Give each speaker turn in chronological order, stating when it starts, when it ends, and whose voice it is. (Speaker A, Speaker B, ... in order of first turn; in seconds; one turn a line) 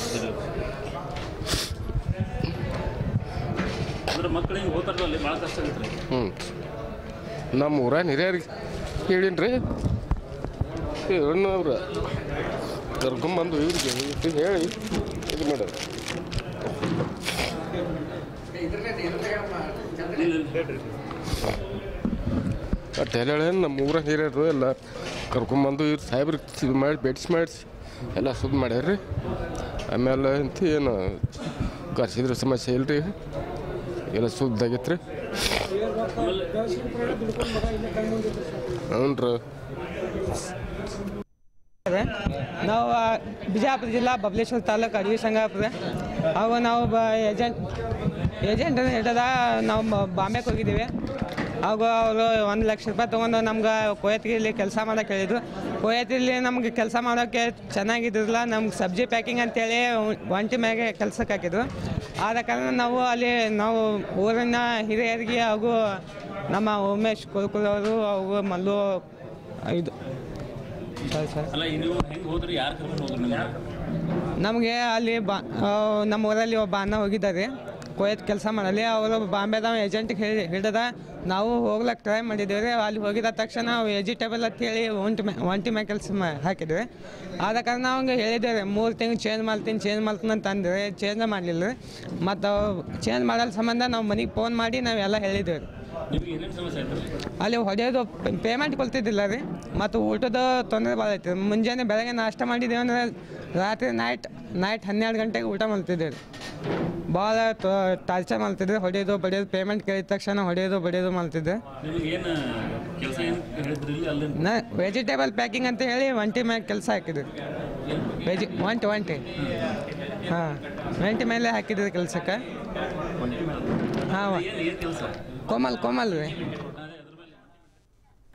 Speaker A: 4.1-6.0
Speaker B: 7.5-8.5
Speaker B: 9.1-9.6
Speaker B: 11.1-11.8
Speaker B: 13.0-14.8
Speaker B: 15.3-15.8
Speaker A: 20.1-20.7
Speaker B: 23.0-24.8
Speaker B: 25.3-29.0
Speaker B: 29.9-31.4
Speaker B: 31.9-33.1
Speaker B: 34.1-35.7
Speaker A: 36.2-37.2
Speaker A: 37.8-38.2
Speaker B: 38.9-39.4
Speaker C: 41.9-45.7
Speaker C: 46.3-47.6
Speaker C: 48.4-50.9
Speaker C: 51.6-61.6
Speaker C: 62.2-65.8
Speaker C: 66.5-69.0
Speaker C: 71.1-71.5
Speaker A: 71.5-73.5
Speaker C: 74.4-86.9
Speaker C: 87.4-95.7
Speaker A: 96.1-97.1
Speaker C: 97.4-106.2
Speaker C: 107.1-111.6
Speaker A: 111.8-114.4
Speaker C: 114.4-117.3
Speaker C: 118.2-119.2
Speaker C: 120.3-122.4
Speaker C: 124.1-124.5
Speaker A: 124.3-125.3
Speaker C: 125.5-126.3
Speaker A: 126.7-127.4